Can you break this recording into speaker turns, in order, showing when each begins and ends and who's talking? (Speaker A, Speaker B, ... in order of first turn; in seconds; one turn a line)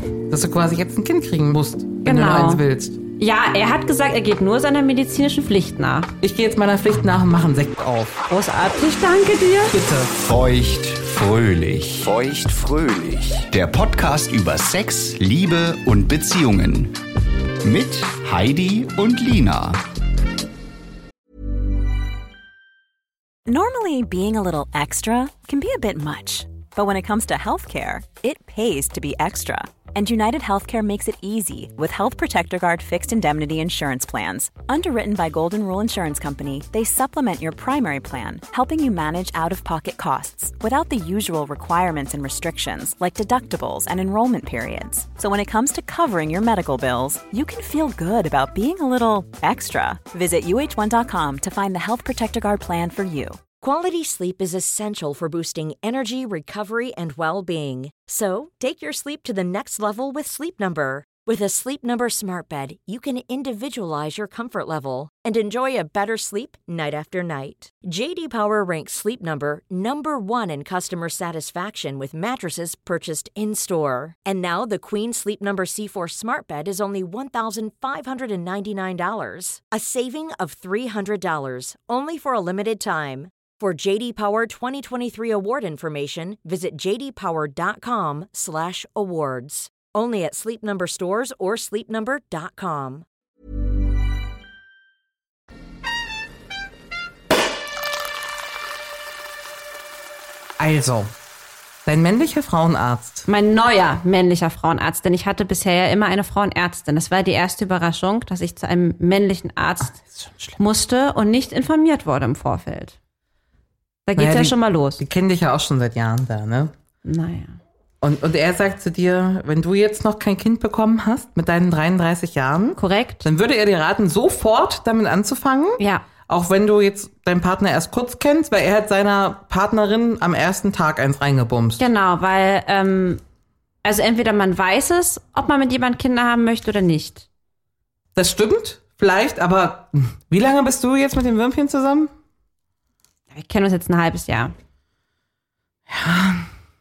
Speaker A: 0.3-3.0
Speaker B: 2.0-2.6
Speaker B: 3.2-6.1
Speaker A: 6.2-8.2
Speaker B: 8.3-9.8
Speaker A: 9.7-10.1
Speaker C: 10.1-16.9
Speaker C: 17.6-19.8
Speaker D: 23.5-53.4
Speaker E: 53.6-93.0
Speaker A: 100.6-101.1
Speaker A: 101.8-103.2
Speaker B: 103.3-110.0
Speaker A: 109.9-110.6
Speaker B: 110.6-113.0
Speaker B: 114.0-115.0
Speaker A: 114.2-116.7
Speaker B: 117.0-117.5
Speaker A: 118.0-131.8
Speaker B: 122.8-123.2
Speaker B: 125.8-126.0
Speaker B: 131.8-133.2
Speaker B: 133.8-137.3
Speaker A: 138.1-142.1
Speaker B: 143.3-144.5
Speaker A: 145.9-146.5